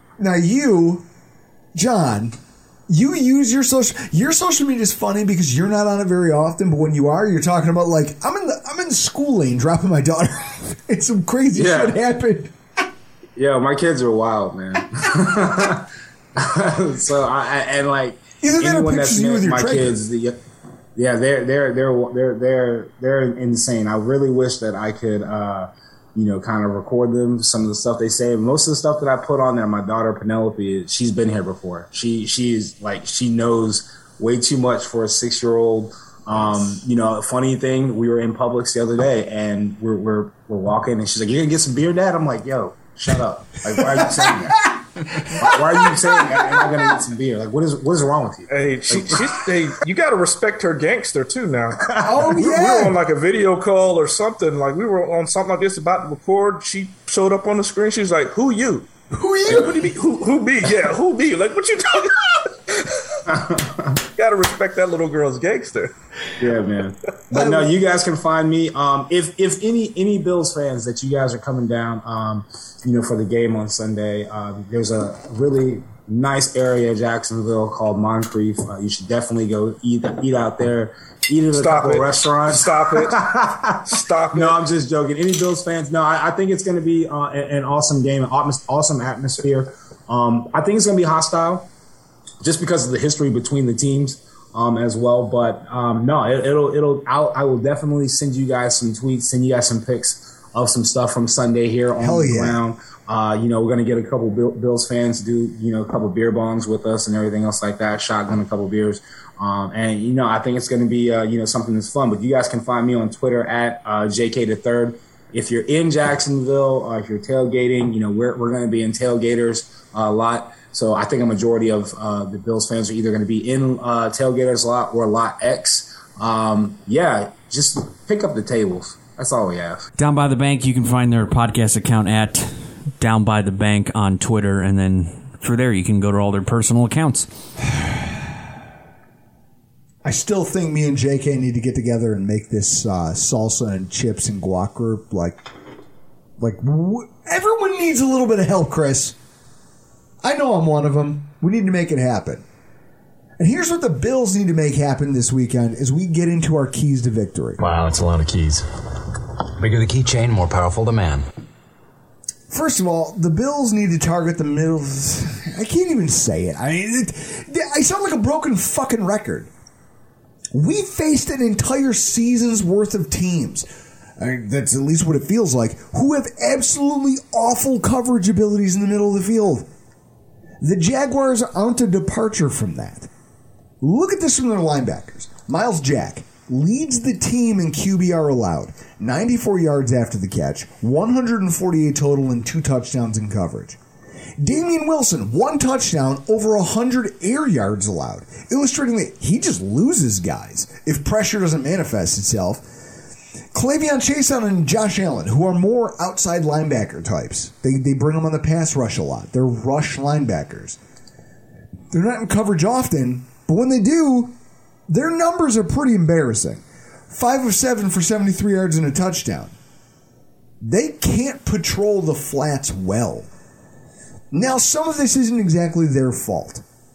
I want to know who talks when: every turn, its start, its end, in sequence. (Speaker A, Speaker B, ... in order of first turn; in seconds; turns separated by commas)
Speaker A: 0.2-1.1, Speaker A: 1.7-2.3, Speaker A: 2.9-12.5, Speaker B: 11.5-12.0, Speaker B: 13.4-20.4, Speaker A: 18.4-20.0, Speaker B: 20.9-49.4, Speaker A: 43.8-46.9, Speaker C: 48.5-58.9, Speaker B: 51.8-52.3, Speaker A: 52.0-53.0, Speaker A: 59.1-59.8, Speaker C: 59.5-63.2, Speaker B: 63.3-64.0, Speaker C: 64.2-65.9, Speaker B: 66.4-91.7, Speaker A: 67.3-67.7, Speaker C: 81.5-83.3, Speaker C: 83.8-84.6, Speaker B: 92.4-129.9, Speaker A: 102.0-102.6, Speaker D: 130.0-137.3, Speaker A: 140.0-145.4, Speaker A: 146.4-149.2, Speaker A: 150.2-152.4, Speaker A: 153.4-157.6, Speaker E: 157.6-158.6, Speaker E: 159.6-161.2, Speaker A: 162.5-169.5, Speaker A: 170.5-173.7, Speaker A: 174.2-179.7, Speaker A: 180.6-183.1, Speaker A: 183.8-193.8, Speaker A: 194.4-202.6, Speaker A: 203.5-210.8, Speaker A: 211.9-214.3, Speaker A: 214.9-219.5, Speaker A: 220.6-223.3, Speaker A: 224.3-226.6